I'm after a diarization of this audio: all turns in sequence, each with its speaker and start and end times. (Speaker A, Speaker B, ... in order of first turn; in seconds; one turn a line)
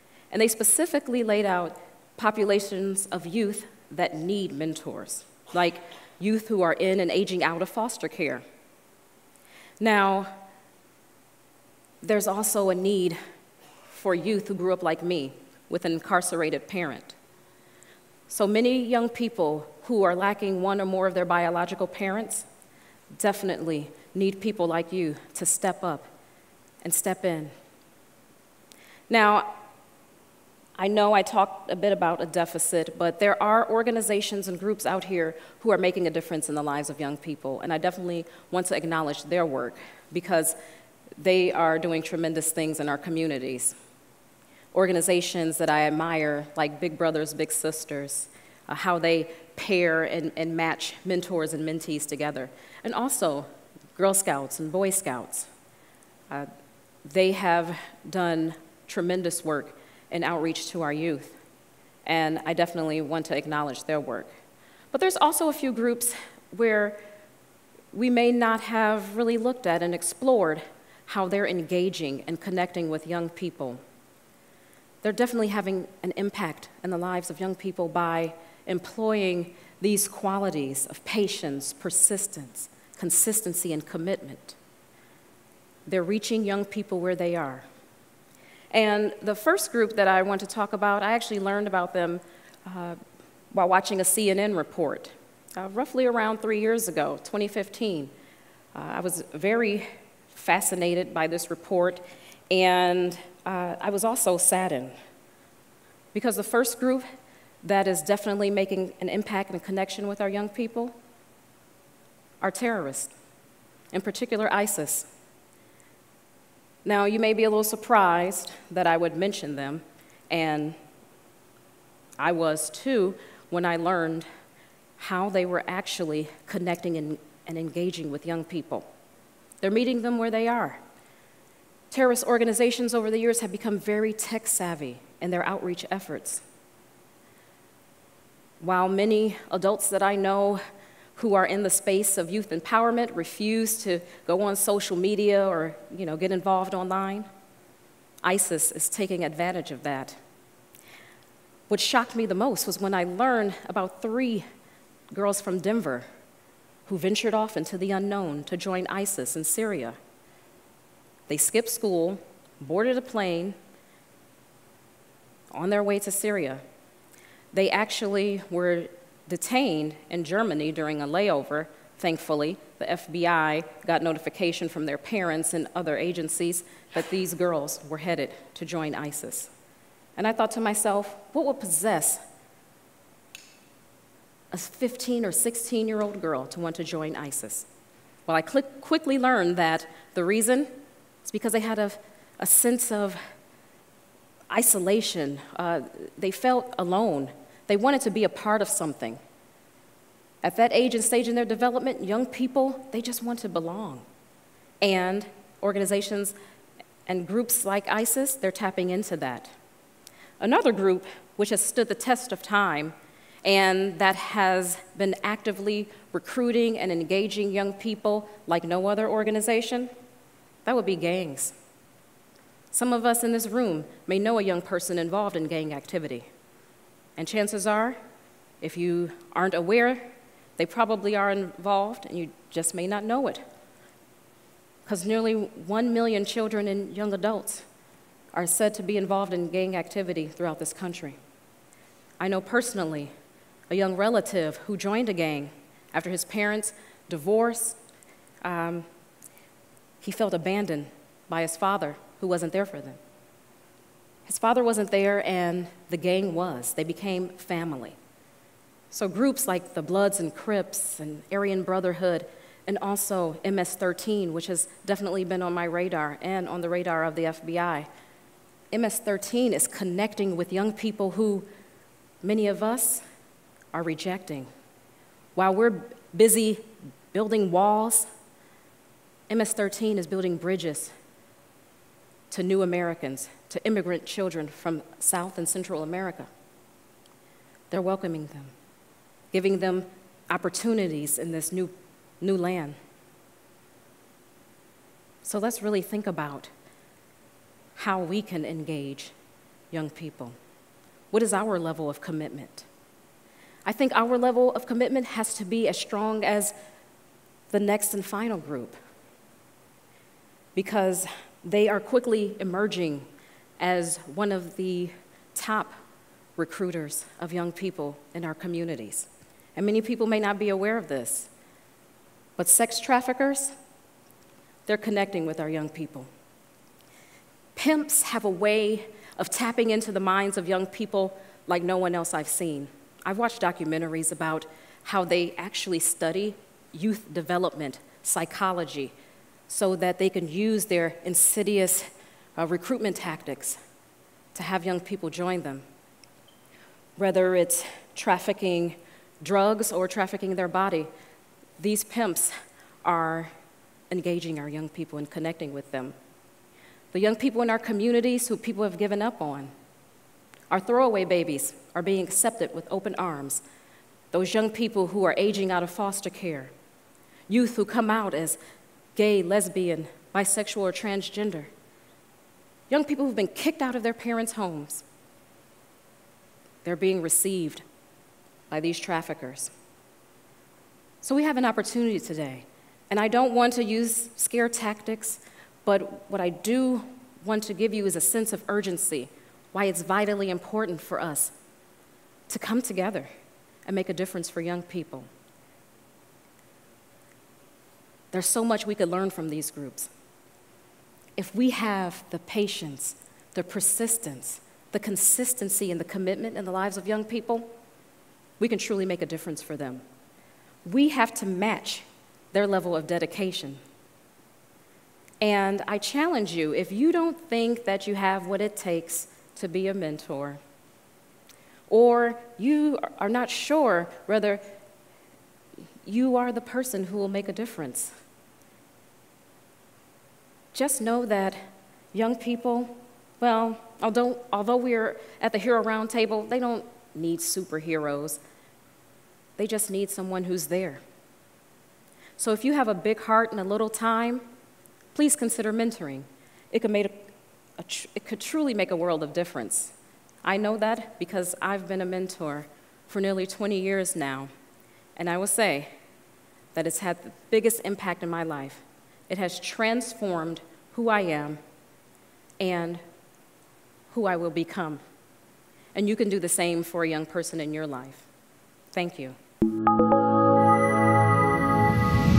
Speaker A: 0.3-8.4
Speaker A: 9.8-10.4
Speaker A: 12.0-13.2
Speaker A: 13.9-17.1
Speaker A: 18.3-22.4
Speaker A: 23.1-26.1
Speaker A: 26.8-27.5
Speaker A: 29.1-29.6
Speaker A: 30.8-40.5
Speaker A: 41.2-43.7
Speaker A: 44.7-55.5
Speaker A: 57.0-61.4
Speaker A: 62.0-64.3
Speaker A: 64.9-67.0
Speaker A: 67.9-73.8
Speaker A: 75.0-84.6
Speaker A: 85.9-87.7
Speaker A: 88.7-93.0
Speaker A: 93.5-98.1
Speaker A: 98.7-104.9
Speaker A: 106.1-107.0
Speaker A: 107.6-110.9
Speaker A: 112.4-113.1
Speaker A: 113.9-115.1
Speaker A: 116.8-120.8
Speaker A: 122.2-124.2
Speaker A: 125.0-128.8
Speaker A: 129.6-130.8
Speaker A: 131.9-136.4
Speaker A: 138.6-140.6
Speaker A: 141.2-147.3
Speaker A: 148.2-150.2
Speaker A: 151.7-154.4
Speaker A: 155.1-156.0
Speaker A: 156.8-160.0
Speaker A: 161.3-163.6
Speaker A: 165.5-166.6
Speaker A: 167.5-179.5
Speaker A: 180.2-182.2
Speaker A: 184.5-187.7
Speaker A: 188.3-190.7
Speaker A: 191.2-193.2
Speaker A: 194.5-199.2
Speaker A: 200.4-204.1
Speaker A: 204.8-206.3
Speaker A: 207.1-209.5
Speaker A: 210.4-219.9
Speaker A: 220.6-221.5
Speaker A: 222.7-226.3
Speaker A: 227.2-228.0
Speaker A: 228.6-230.0
Speaker A: 230.6-233.4
Speaker A: 234.8-237.6
Speaker A: 238.3-241.2
Speaker A: 242.2-243.1
Speaker A: 243.7-247.8
Speaker A: 248.4-248.8
Speaker A: 250.0-253.0
Speaker A: 254.2-258.0
Speaker A: 258.9-267.9
Speaker A: 268.7-271.5
Speaker A: 272.2-273.0
Speaker A: 273.7-274.5
Speaker A: 275.4-278.1
Speaker A: 279.3-280.9
Speaker A: 282.3-286.3
Speaker A: 287.7-288.5
Speaker A: 289.3-292.8
Speaker A: 295.2-296.5
Speaker A: 297.8-299.1
Speaker A: 299.7-300.4
Speaker A: 301.1-302.7
Speaker A: 303.6-306.5
Speaker A: 307.5-308.8
Speaker A: 310.5-313.1
Speaker A: 313.6-315.7
Speaker A: 316.4-321.3
Speaker A: 322.4-323.5
Speaker A: 324.7-326.1
Speaker A: 327.6-338.9
Speaker A: 339.5-343.6
Speaker A: 344.3-345.6
Speaker A: 347.0-350.9
Speaker A: 351.6-352.3
Speaker A: 352.8-353.3
Speaker A: 353.9-355.9
Speaker A: 356.9-359.5
Speaker A: 360.5-363.4
Speaker A: 364.1-366.5
Speaker A: 367.3-368.4
Speaker A: 368.9-371.5
Speaker A: 372.7-374.8
Speaker A: 376.6-377.6
Speaker A: 378.5-379.5
Speaker A: 381.0-391.3
Speaker A: 392.3-393.1
Speaker A: 393.6-395.1
Speaker A: 398.1-399.9
Speaker A: 401.2-407.5
Speaker A: 408.4-409.8
Speaker A: 410.6-413.6
Speaker A: 415.2-420.4
Speaker A: 421.7-424.4
Speaker A: 425.8-427.9
Speaker A: 430.5-431.4
Speaker A: 431.9-438.2
Speaker A: 439.4-440.8
Speaker A: 442.2-444.2
Speaker A: 444.9-454.3
Speaker A: 454.9-455.7
Speaker A: 456.5-461.4
Speaker A: 462.4-462.8
Speaker A: 463.9-464.8
Speaker A: 465.7-468.1
Speaker A: 468.7-469.1